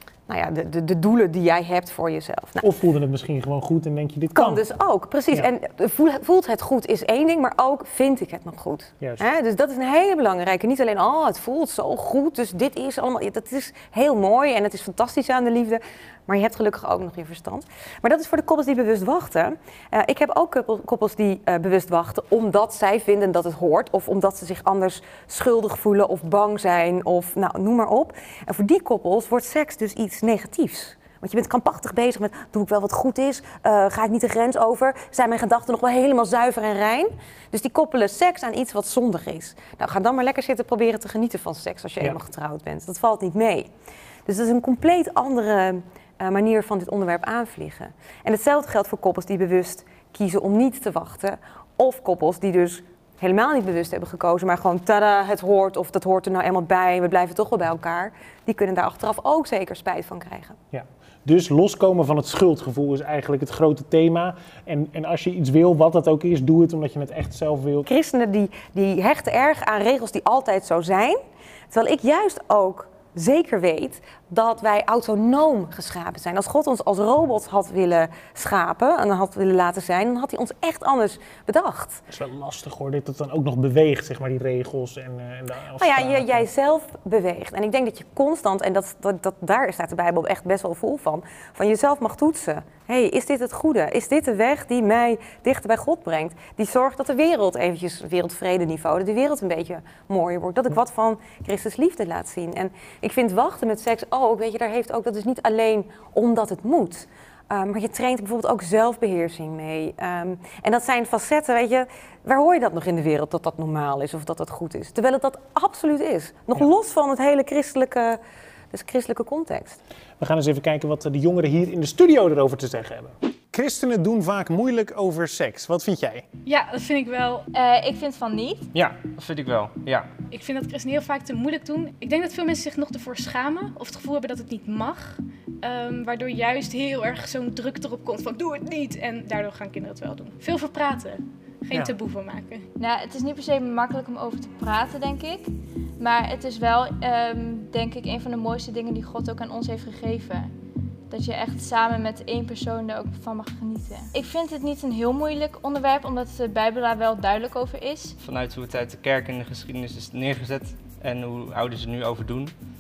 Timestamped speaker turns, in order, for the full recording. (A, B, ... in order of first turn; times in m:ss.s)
0:00.3-0:02.6 A
0:02.6-0:04.6 B
0:04.4-0:43.7 A
0:44.3-1:00.6 A
1:00.7-1:07.9 B
1:07.9-1:11.2 A
1:11.7-1:22.0 A
1:22.1-1:26.5 B
1:25.8-1:58.2 A
1:58.7-1:59.8 A
2:00.2-2:06.3 B
2:06.4-2:07.5 C
2:07.5-2:08.7 D
2:08.7-2:10.1 E
2:10.3-2:22.7 C
2:21.7-2:22.0 B
2:22.8-2:30.5 D
2:31.1-2:38.2 D
2:38.2-2:42.6 E